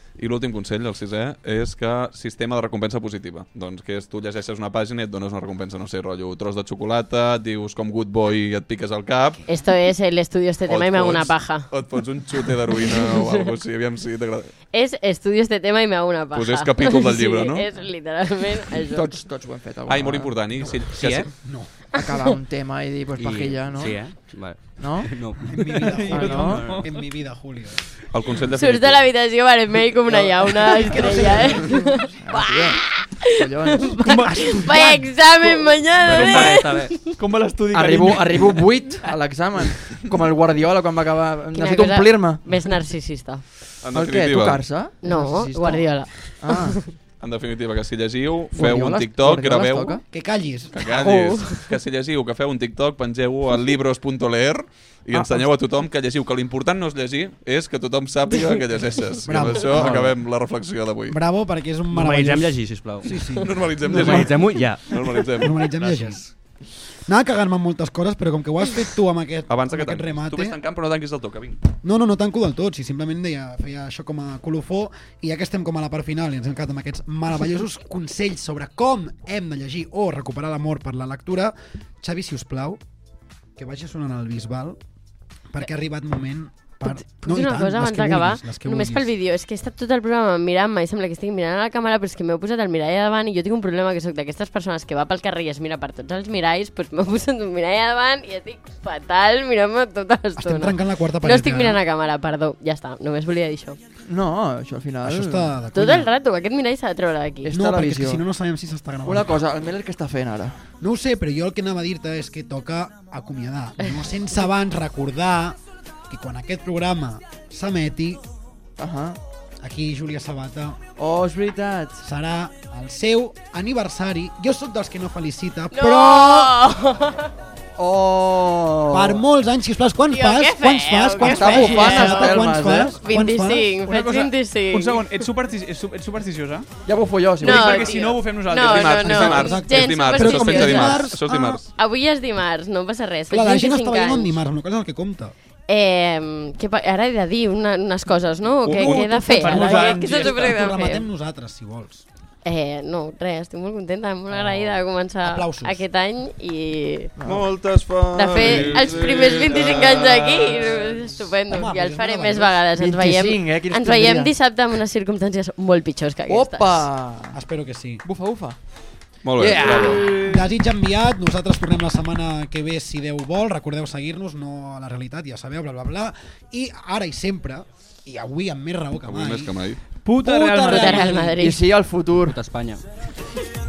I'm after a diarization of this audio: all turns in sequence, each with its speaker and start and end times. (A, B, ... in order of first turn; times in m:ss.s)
0:00.2-0:09.4 A
0:09.4-0:11.7 B
0:10.7-0:14.5 A
0:12.6-0:13.5 B
0:14.7-0:19.1 B
0:16.3-0:17.7 A
0:18.9-0:20.3 C
0:19.9-0:21.3 A
0:20.9-0:21.3 D
0:21.4-0:21.7 E
0:21.9-0:24.0 C
0:23.2-0:26.8 D
0:24.8-0:25.1 C
0:25.4-0:27.8 E
0:26.0-0:26.9 F
0:26.1-0:26.8 C
0:28.1-0:29.1 A
0:28.5-0:37.2 B
0:30.1-0:33.9 C
0:30.9-0:31.6 E
0:34.0-0:34.5 F
0:34.2-0:35.2 E
0:36.0-0:37.0 D
0:36.1-0:36.5 A
0:37.2-0:38.7 F
0:37.7-0:42.7 C
0:41.5-0:43.4 B
0:43.8-0:44.6 A
0:43.9-0:46.8 C
0:45.0-0:46.9 B
0:47.2-0:50.0 A
0:48.5-0:50.0 C
0:50.1-0:50.8 E
0:50.7-1:01.2 A
0:50.8-0:51.6 B
0:55.1-0:55.5 C
0:59.2-1:00.1 E
0:59.7-1:00.1 D
1:01.1-1:04.6 E
1:01.9-1:06.3 D
1:03.3-1:05.7 A
1:05.3-1:06.2 E
1:07.0-1:10.6 E
1:09.5-1:11.6 A
1:11.8-1:22.8 E
1:23.6-1:24.8 E
1:25.5-1:29.1 E
1:26.8-1:43.8 B
1:40.4-1:41.8 E
1:44.0-1:45.5 C
1:45.0-1:46.1 E
1:45.7-1:47.5 B
1:47.4-1:48.2 C
1:47.5-1:49.4 E
1:49.0-1:50.6 C
1:50.8-1:55.6 E
1:56.1-1:58.2 E
1:58.8-1:59.2 C
1:59.6-2:00.8 E
2:01.0-2:02.0 C
2:02.0-2:06.6 E
2:05.7-2:07.3 B
2:07.8-2:09.2 C
2:08.9-2:13.8 E
2:10.1-2:15.2 B
2:11.2-2:13.0 C
2:13.8-2:16.7 F
2:16.8-2:17.9 C
2:17.4-2:24.4 B
2:17.4-2:19.4 F
2:18.6-2:21.7 A
2:19.1-2:21.6 E
2:23.3-2:25.3 E
2:25.7-2:31.0 B
2:28.7-2:29.8 A
2:28.7-2:32.0 E
2:29.1-2:30.5 F
2:32.4-2:37.1 B
2:35.2-2:35.8 E
2:37.2-2:37.5 C
2:37.2-2:40.7 A
2:38.1-2:46.9 B
2:38.9-2:40.2 F
2:41.5-2:42.6 E
2:42.8-2:44.3 C
2:46.3-2:47.4 C
2:47.3-2:48.0 E
2:48.0-2:48.6 C
2:49.2-2:50.0 A
2:49.4-2:50.4 C
2:50.0-2:50.3 F
2:50.3-2:59.5 E
2:59.0-2:59.8 A
3:00.0-3:01.3 F
3:00.2-3:01.3 E
3:00.6-3:01.6 B
3:01.4-3:02.4 C
3:02.2-3:02.8 D